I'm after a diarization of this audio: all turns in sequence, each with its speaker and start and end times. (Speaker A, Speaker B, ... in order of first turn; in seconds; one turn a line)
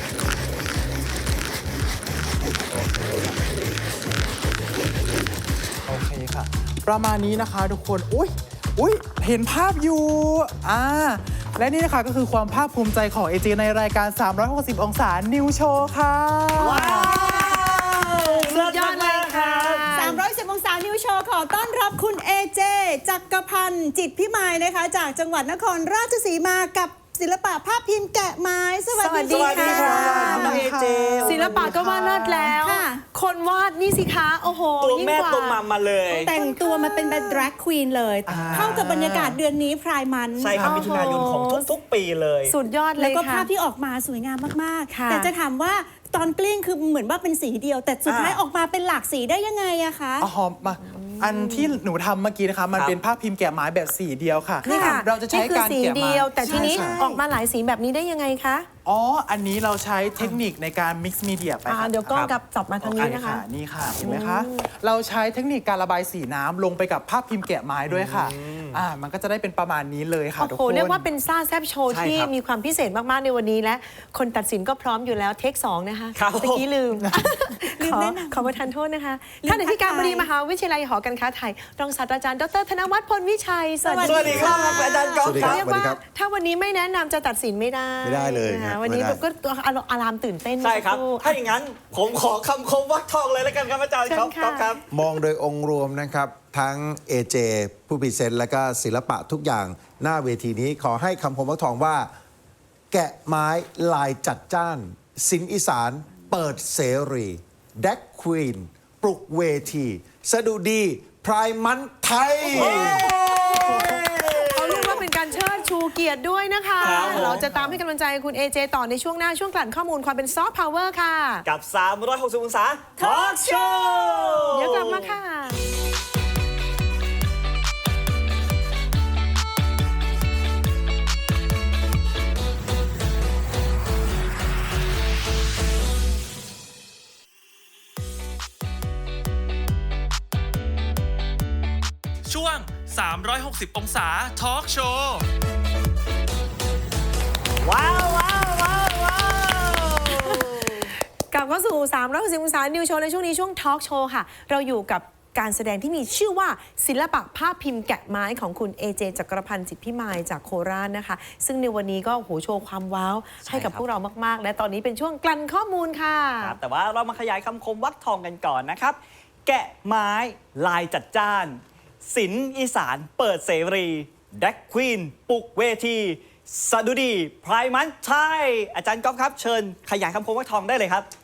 Speaker A: 2.7-3.3
Speaker A: 5.8-17.1
Speaker B: 16.6-19.9
Speaker C: 16.7-18.5
Speaker D: 18.5-20.2
Speaker C: 19.9-30.6
Speaker D: 28.9-30.6
Speaker B: 29.3-31.7
Speaker A: 29.6-32.5
Speaker D: 31.2-35.6
Speaker C: 31.6-33.0
Speaker B: 34.8-36.3
Speaker C: 36.1-40.7
Speaker D: 36.3-37.5
Speaker A: 38.2-39.4
Speaker B: 38.3-38.9
Speaker B: 40.4-42.5
Speaker A: 40.5-41.1
Speaker D: 40.6-41.6
Speaker D: 42.5-43.5
Speaker C: 43.0-50.3
Speaker D: 44.9-45.3
Speaker B: 48.0-48.4
Speaker A: 50.2-57.0
Speaker D: 50.8-51.7
Speaker D: 54.6-58.7
Speaker C: 56.5-57.2
Speaker A: 58.8-62.2
Speaker D: 61.7-63.4
Speaker A: 62.8-71.0
Speaker D: 64.0-64.6
Speaker B: 67.9-68.8
Speaker D: 70.4-91.4
Speaker B: 71.9-72.3
Speaker B: 76.2-76.7
Speaker C: 77.8-78.6
Speaker C: 79.4-80.3
Speaker C: 83.8-85.4
Speaker B: 84.0-85.7
Speaker E: 85.2-86.0
Speaker E: 88.0-89.2
Speaker B: 90.6-94.8
Speaker D: 94.1-94.7
Speaker E: 94.9-102.1
Speaker E: 102.9-113.0
Speaker B: 112.5-115.0
Speaker C: 113.0-114.0
Speaker D: 113.6-113.9
Speaker D: 114.5-121.5
Speaker C: 114.5-114.9
Speaker B: 116.8-117.5
Speaker C: 116.8-117.1
Speaker A: 117.0-117.7
Speaker B: 121.5-125.1
Speaker C: 123.0-124.5
Speaker D: 124.5-125.7
Speaker F: 142.2-145.2
Speaker B: 147.6-150.9
Speaker D: 150.1-150.7
Speaker D: 151.3-166.6
Speaker B: 163.4-163.8
Speaker B: 166.4-181.1